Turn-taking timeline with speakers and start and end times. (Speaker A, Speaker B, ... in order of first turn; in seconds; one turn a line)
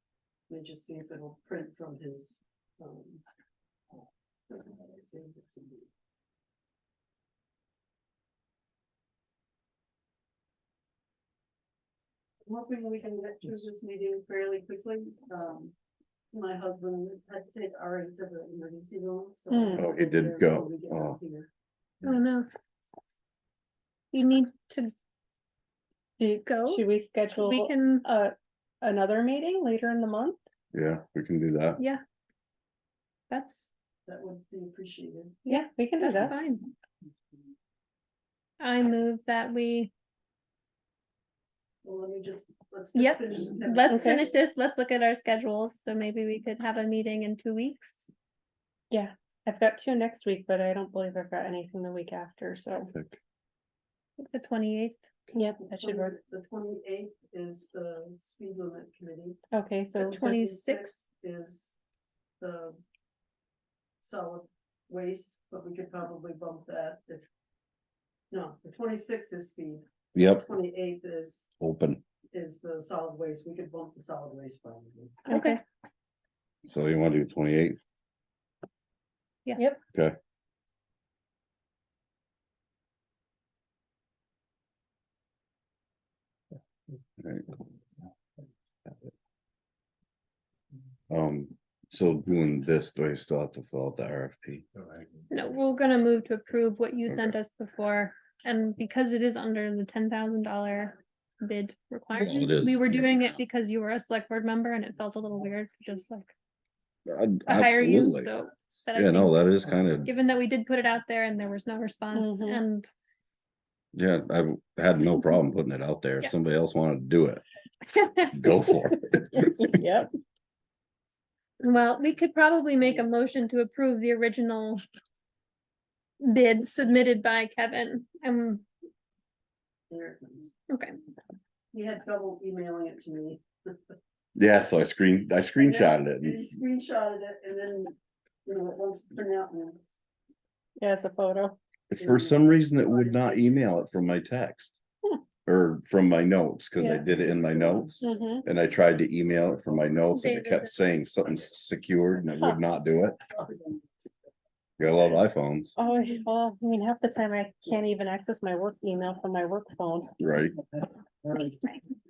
Speaker A: 0.5-3.2
Speaker A: 4.5-5.9
Speaker A: 12.5-15.7
Speaker A: 16.3-21.5
Speaker B: 19.5-19.9
Speaker C: 19.8-21.2
Speaker D: 22.0-22.5
Speaker D: 24.1-24.9
Speaker B: 26.2-30.4
Speaker D: 26.2-26.9
Speaker D: 27.4-28.1
Speaker C: 30.7-31.8
Speaker D: 33.3-33.7
Speaker A: 34.1-35.5
Speaker B: 35.5-36.3
Speaker D: 35.5-36.7
Speaker D: 38.6-39.9
Speaker A: 41.8-44.3
Speaker D: 43.0-48.1
Speaker B: 43.9-44.2
Speaker B: 48.9-52.9
Speaker C: 52.9-53.2
Speaker D: 54.2-55.0
Speaker B: 55.3-56.1
Speaker A: 55.6-59.4
Speaker B: 59.5-60.2
Speaker D: 60.0-61.0
Speaker A: 60.0-61.8
Speaker A: 62.4-62.8
Speaker A: 64.0-67.3
Speaker A: 68.3-71.5
Speaker C: 70.2-70.5
Speaker C: 71.6-72.0
Speaker A: 72.3-75.2
Speaker B: 75.3-75.6
Speaker D: 75.3-75.6
Speaker C: 76.7-77.8
Speaker C: 87.2-87.6
Speaker C: 88.9-89.1
Speaker C: 91.1-94.7
Speaker D: 95.3-106.3
Speaker C: 97.1-97.3
Speaker C: 102.1-103.3
Speaker C: 107.1-108.3
Speaker D: 107.5-112.9
Speaker C: 108.9-110.1
Speaker B: 112.1-112.6
Speaker C: 113.9-117.4
Speaker D: 117.8-118.4
Speaker C: 118.3-119.7
Speaker B: 119.5-120.1
Speaker D: 121.6-124.8
Speaker D: 126.2-128.7
Speaker A: 129.9-130.5
Speaker D: 130.7-131.0
Speaker A: 131.7-133.9
Speaker C: 134.4-136.6
Speaker A: 135.6-139.8
Speaker B: 140.8-141.6
Speaker C: 141.9-144.8
Speaker A: 142.0-143.4
Speaker C: 145.5-153.2
Speaker A: 147.3-147.9
Speaker B: 148.0-148.4
Speaker D: 150.1-150.8
Speaker A: 153.4-153.8
Speaker C: 154.8-155.7
Speaker B: 155.8-160.2
Speaker C: 160.2-160.6
Speaker A: 161.2-161.6